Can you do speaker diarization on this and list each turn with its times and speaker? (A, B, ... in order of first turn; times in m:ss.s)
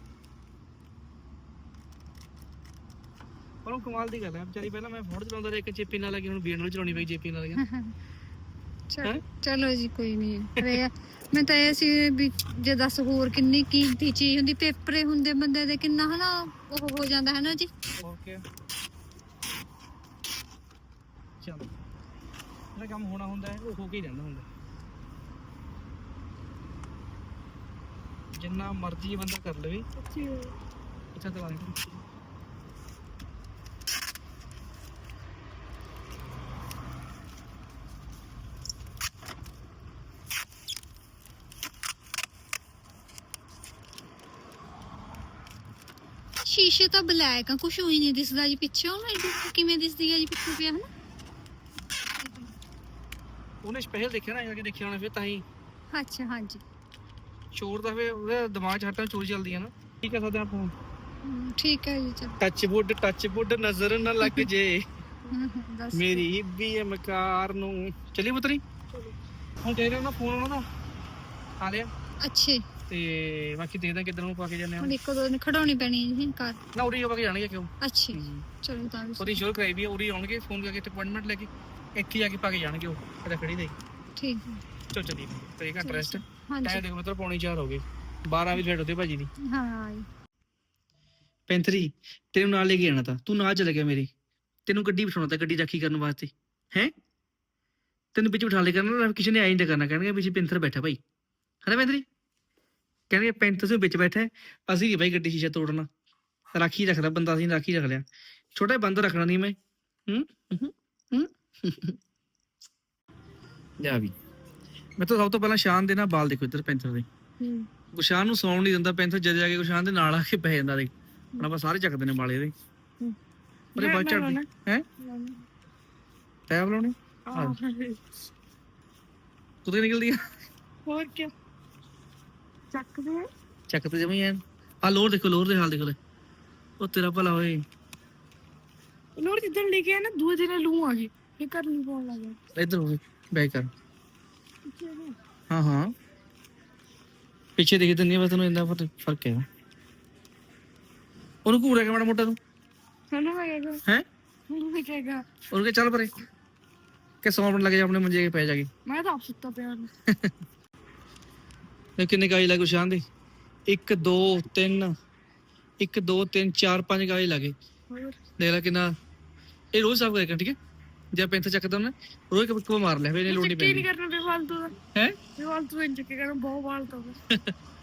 0:03.6-0:07.6 A
0:07.6-0:07.9 B
0:08.9-0:17.7 B
0:18.0-0:18.4 A
0:21.4-0:21.7 A
0:22.7-0:24.4 A
0:28.3-0:29.8 A
0:30.0-0:30.5 C
0:31.1-0:32.0 A
0:46.4-0:50.9 B
0:53.6-0:55.4 A
0:55.9-0:56.6 B
0:57.5-1:00.7 A
1:01.2-1:02.4 B
1:02.4-1:04.8 A
1:04.2-1:04.5 B
1:05.3-1:06.2 B
1:05.9-1:08.6 A
1:09.6-1:10.6 A
1:11.6-1:11.9 A
1:12.2-1:12.6 B
1:12.9-1:14.9 A
1:14.8-1:16.6 B
1:16.7-1:18.4 A
1:17.8-1:19.4 B
1:19.2-1:23.7 A
1:24.2-1:24.6 B
1:24.9-1:29.3 A
1:25.8-1:26.8 B
1:29.5-1:30.0 B
1:31.5-1:34.1 A
1:34.6-1:36.9 A
1:38.1-1:41.0 A
1:41.6-1:42.0 A
1:43.1-1:45.9 A
1:46.5-1:49.6 A
1:50.1-1:52.0 A
1:53.8-1:54.1 A
1:55.0-1:57.0 A
1:57.4-1:57.6 C
1:57.9-2:02.5 A
2:03.7-2:04.8 A
2:03.8-2:04.4 C
2:05.0-2:05.4 C
2:06.5-2:07.6 A
2:07.3-2:08.0 C
2:09.6-2:10.2 A
2:10.8-2:11.3 C
2:12.7-2:13.2 C
2:13.7-2:16.0 A
2:16.8-2:17.6 A
2:19.2-2:22.4 C
2:22.6-2:23.7 A
2:24.7-2:25.2 C
2:25.5-2:25.9 A
2:27.6-2:29.4 A
2:31.4-2:32.4 A
2:33.1-2:33.8 C
2:34.5-2:35.2 C
2:35.5-2:36.1 A
2:37.2-2:38.7 A
2:38.8-2:39.9 C
2:42.0-2:43.0 A
2:43.7-2:44.9 A
2:45.8-2:47.5 A
2:47.9-2:48.2 C
2:48.4-2:48.9 A
2:49.7-2:50.6 A
2:51.1-2:53.9 A
2:53.3-2:54.8 C
2:55.4-2:57.2 C